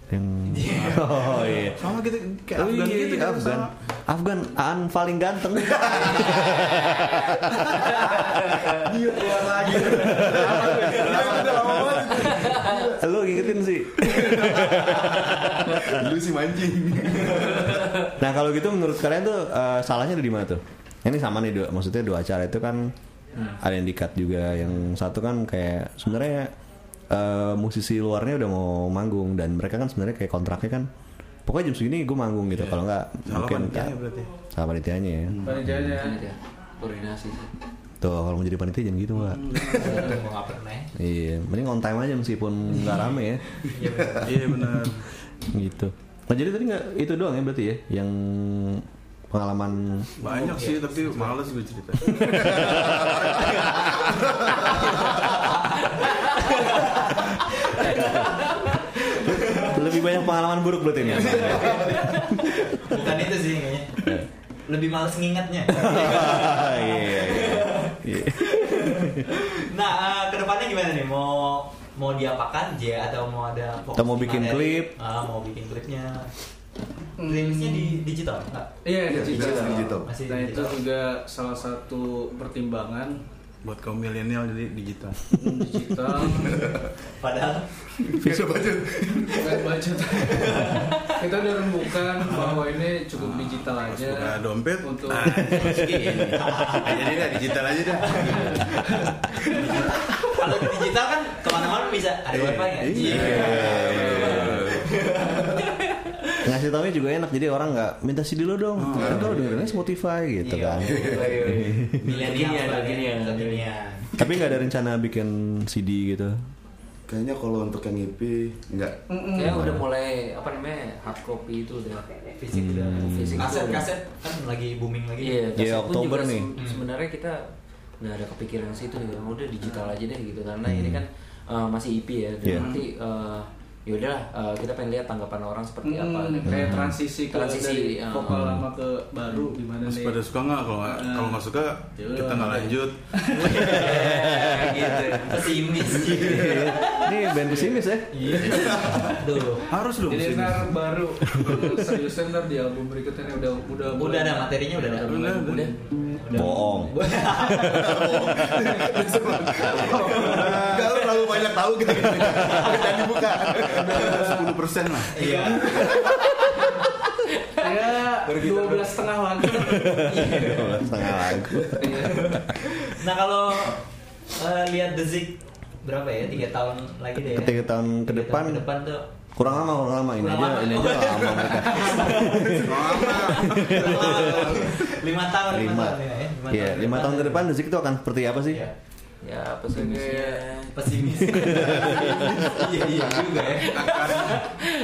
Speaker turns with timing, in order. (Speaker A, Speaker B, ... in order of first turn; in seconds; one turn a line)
Speaker A: 0.1-1.8
Speaker B: 0.5-1.6
Speaker C: 0.7-3.7
Speaker A: 2.5-8.8
Speaker D: 5.8-6.1
Speaker D: 7.8-18.1
Speaker A: 9.9-12.4
Speaker A: 13.0-16.1
Speaker A: 18.1-22.9
Speaker A: 23.6-26.5
Speaker A: 27.1-30.9
Speaker A: 31.4-34.0
Speaker C: 32.5-34.3
Speaker A: 34.5-36.0
Speaker D: 35.3-35.7
Speaker E: 35.4-36.2
Speaker F: 36.0-37.5
Speaker A: 38.0-39.6
Speaker C: 39.1-40.2
Speaker B: 39.7-40.9
Speaker A: 41.0-43.4
Speaker B: 43.6-44.5
Speaker C: 44.2-45.0
Speaker A: 45.5-50.1
Speaker C: 50.2-53.0
Speaker B: 50.2-51.3
Speaker A: 52.2-53.8
Speaker D: 54.5-55.0
Speaker B: 54.9-60.0
Speaker A: 57.9-58.3
Speaker A: 59.4-62.0
Speaker B: 61.0-76.3
Speaker D: 61.4-62.1
Speaker A: 65.7-69.2
Speaker A: 73.9-74.9
Speaker E: 77.2-78.0
Speaker B: 77.2-78.7
Speaker E: 78.8-83.2
Speaker D: 79.1-80.1
Speaker B: 79.3-80.8
Speaker C: 83.6-85.4
Speaker E: 85.4-86.7
Speaker D: 86.4-86.9
Speaker B: 87.2-87.9
Speaker D: 88.0-89.7
Speaker A: 88.2-88.8
Speaker E: 89.4-95.5
Speaker B: 90.2-91.2
Speaker C: 93.2-98.8
Speaker A: 95.3-96.4
Speaker B: 95.6-97.4
Speaker B: 98.0-105.7
Speaker C: 99.5-99.9
Speaker C: 102.3-105.0
Speaker A: 103.0-104.6
Speaker A: 106.4-112.0
Speaker C: 108.8-109.4
Speaker D: 108.9-109.4
Speaker B: 110.4-111.3
Speaker F: 111.1-113.6
Speaker B: 112.0-114.1
Speaker A: 114.2-116.4
Speaker D: 117.1-119.0
Speaker E: 119.1-119.6
Speaker F: 119.3-122.0
Speaker A: 119.4-119.9
Speaker B: 122.4-125.6
Speaker A: 122.5-123.5
Speaker F: 123.0-123.9
Speaker F: 125.2-127.5
Speaker A: 125.5-126.5
Speaker B: 126.5-126.8
Speaker F: 128.0-136.6
Speaker A: 130.6-131.0
Speaker A: 132.4-132.7
Speaker C: 132.5-132.8
Speaker E: 135.8-140.3
Speaker A: 136.4-137.0
Speaker F: 137.3-138.4
Speaker A: 138.3-138.7
Speaker C: 139.8-143.7
Speaker E: 140.8-143.9
Speaker A: 143.6-145.1
Speaker F: 143.6-145.5
Speaker B: 143.6-144.3
Speaker B: 145.2-147.0
Speaker A: 146.1-148.3
Speaker E: 147.4-147.8
Speaker B: 148.1-149.7
Speaker C: 148.4-149.1
Speaker D: 148.5-148.9
Speaker C: 149.7-150.8
Speaker E: 150.0-155.2
Speaker A: 151.3-151.6
Speaker C: 151.3-151.7
Speaker B: 153.9-155.3
Speaker C: 155.0-155.7
Speaker F: 155.2-155.7
Speaker B: 155.9-158.1
Speaker A: 156.3-158.4
Speaker D: 157.5-164.5
Speaker E: 158.8-159.2
Speaker B: 159.7-160.8
Speaker C: 160.2-160.8
Speaker B: 162.3-162.9
Speaker C: 163.7-165.2
Speaker B: 165.1-166.0
Speaker F: 165.9-166.5
Speaker E: 167.6-170.4
Speaker F: 168.2-169.0
Speaker A: 169.5-172.1
Speaker E: 171.8-172.2
Speaker B: 172.1-179.1
Speaker A: 177.2-178.7
Speaker A: 179.3-184.5
Speaker B: 180.2-187.5
Speaker C: 182.5-184.7
Speaker A: 185.5-188.6
Speaker F: 189.2-190.9
Speaker E: 189.7-190.4
Speaker B: 190.7-194.2
Speaker A: 191.1-192.4
Speaker D: 192.5-193.5
Speaker C: 193.5-194.5
Speaker F: 194.2-194.7